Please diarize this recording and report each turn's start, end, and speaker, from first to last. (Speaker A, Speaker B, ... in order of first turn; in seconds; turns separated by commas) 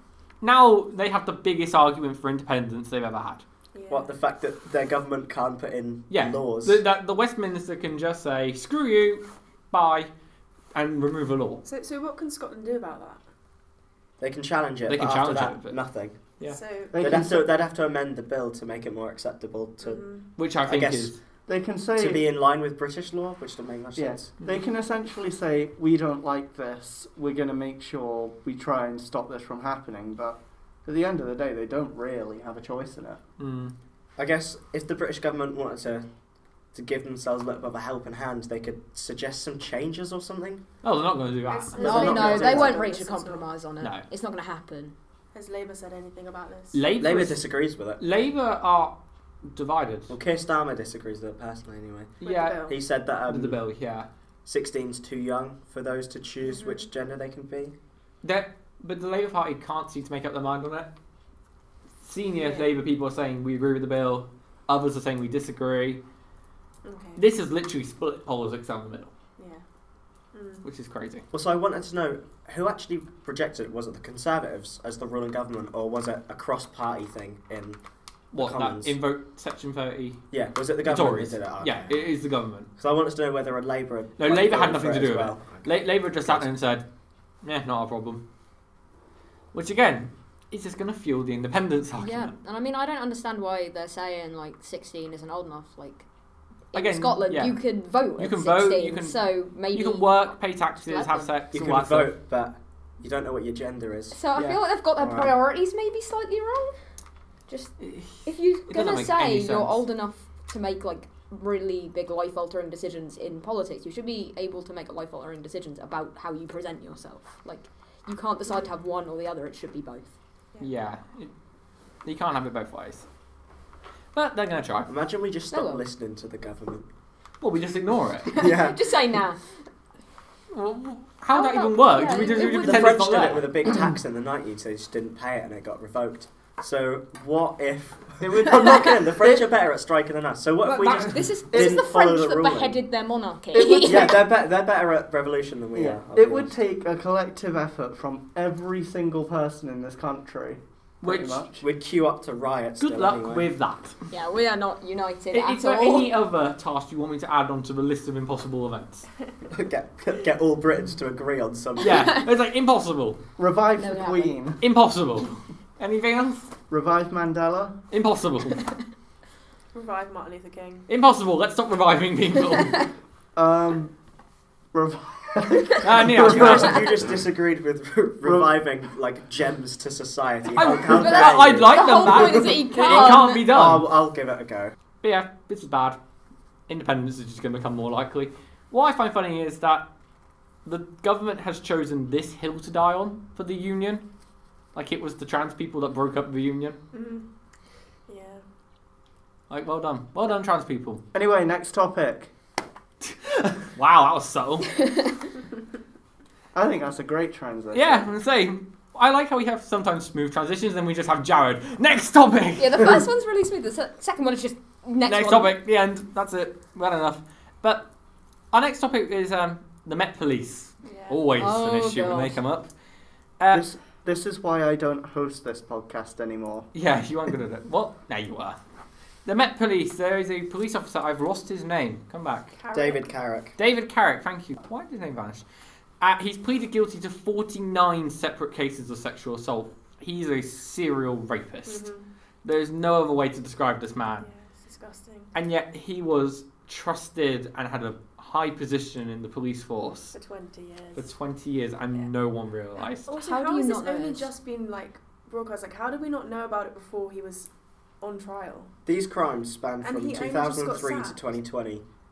Speaker A: 0.4-3.5, Speaker B: 3.7-4.1, Speaker C: 3.9-6.8, Speaker A: 6.1-10.1, Speaker A: 10.7-11.6, Speaker B: 11.7-13.2, Speaker C: 14.2-16.2, Speaker A: 14.9-15.8, Speaker B: 16.4-16.9, Speaker D: 16.9-17.4, Speaker C: 17.0-20.0, Speaker B: 19.8-20.3, Speaker A: 20.4-21.2, Speaker C: 20.6-21.2, Speaker D: 21.5-22.3, Speaker C: 22.0-24.3, Speaker D: 24.0-33.2, Speaker A: 33.4-33.7, Speaker C: 34.2-36.1, Speaker C: 36.7-40.6, Speaker A: 40.8-42.2, Speaker B: 41.5-43.5, Speaker C: 41.8-42.8, Speaker E: 41.8-45.0, Speaker B: 45.3-46.8, Speaker A: 46.7-47.4, Speaker C: 47.0-48.0, Speaker A: 48.0-50.1, Speaker C: 50.1-52.1, Speaker B: 52.2-52.8, Speaker A: 52.2-52.7, Speaker C: 52.7-53.6, Speaker A: 53.2-54.1, Speaker C: 54.5-57.8, Speaker B: 56.4-56.8, Speaker A: 58.2-60.9, Speaker A: 62.0-66.0, Speaker B: 62.4-62.8, Speaker B: 66.8-67.2, Speaker A: 67.2-69.1, Speaker B: 69.4-69.6, Speaker B: 70.3-70.6, Speaker A: 70.6-71.3, Speaker C: 71.3-77.8, Speaker A: 78.3-80.2, Speaker C: 78.3-79.0, Speaker C: 80.3-82.1, Speaker A: 80.8-82.7, Speaker C: 82.8-86.5, Speaker A: 84.2-86.8, Speaker A: 87.4-88.2, Speaker A: 89.5-92.3, Speaker E: 92.0-96.0, Speaker E: 96.7-101.3, Speaker A: 96.7-97.6, Speaker A: 98.2-102.1, Speaker C: 101.5-104.2, Speaker E: 104.1-106.7, Speaker A: 104.3-104.6, Speaker C: 105.0-105.3, Speaker E: 107.5-120.1, Speaker A: 107.8-108.2, Speaker A: 108.7-109.8, Speaker A: 120.6-121.3, Speaker A: 122.0-123.1, Speaker A: 124.1-124.9, Speaker C: 124.9-126.9, Speaker E: 125.5-125.8, Speaker A: 127.4-128.3, Speaker E: 128.3-129.4, Speaker C: 128.3-129.1, Speaker A: 130.5-133.8, Speaker E: 131.3-133.1, Speaker C: 132.2-142.8, Speaker D: 138.5-139.4, Speaker E: 140.7-144.2, Speaker D: 140.8-141.8, Speaker D: 143.5-144.2, Speaker C: 143.8-146.5, Speaker D: 145.8-151.7, Speaker A: 151.0-151.4, Speaker C: 151.6-153.5, Speaker A: 152.8-154.0, Speaker E: 154.1-156.1, Speaker A: 155.3-159.1, Speaker C: 159.5-162.2, Speaker A: 161.8-163.2, Speaker D: 163.4-164.6, Speaker E: 163.8-164.4, Speaker A: 164.6-166.5, Speaker D: 166.7-167.8, Speaker A: 167.9-168.6, Speaker B: 169.7-170.9, Speaker A: 170.9-172.8, Speaker D: 173.4-173.9, Speaker D: 174.7-176.9, Speaker A: 175.8-176.8, Speaker C: 176.2-184.7, Speaker D: 178.2-178.5, Speaker A: 180.5-183.9, Speaker E: 180.9-183.5, Speaker A: 185.0-186.0, Speaker A: 186.7-189.9, Speaker A: 190.7-194.0, Speaker A: 194.7-196.8, Speaker B: 196.9-197.2, Speaker B: 198.1-198.4, Speaker A: 199.5-201.0, Speaker D: 201.1-202.3, Speaker A: 203.0-204.7, Speaker E: 204.8-205.1, Speaker D: 206.5-208.1, Speaker A: 207.7-213.0, Speaker E: 212.6-215.6, Speaker A: 215.1-217.9, Speaker A: 218.5-222.7, Speaker B: 220.8-221.2, Speaker E: 221.4-222.4, Speaker A: 223.4-223.7, Speaker D: 223.5-226.7, Speaker A: 226.7-228.6, Speaker A: 229.2-232.6, Speaker B: 232.6-233.1, Speaker C: 232.7-233.5, Speaker A: 233.6-235.4, Speaker A: 236.0-241.8, Speaker B: 241.7-242.1, Speaker A: 242.4-244.3, Speaker B: 244.2-245.3, Speaker A: 245.3-250.1, Speaker B: 250.1-251.1, Speaker A: 251.0-253.1, Speaker B: 253.1-257.5, Speaker E: 253.1-254.3, Speaker B: 258.0-258.7, Speaker C: 258.9-261.8, Speaker B: 259.8-261.2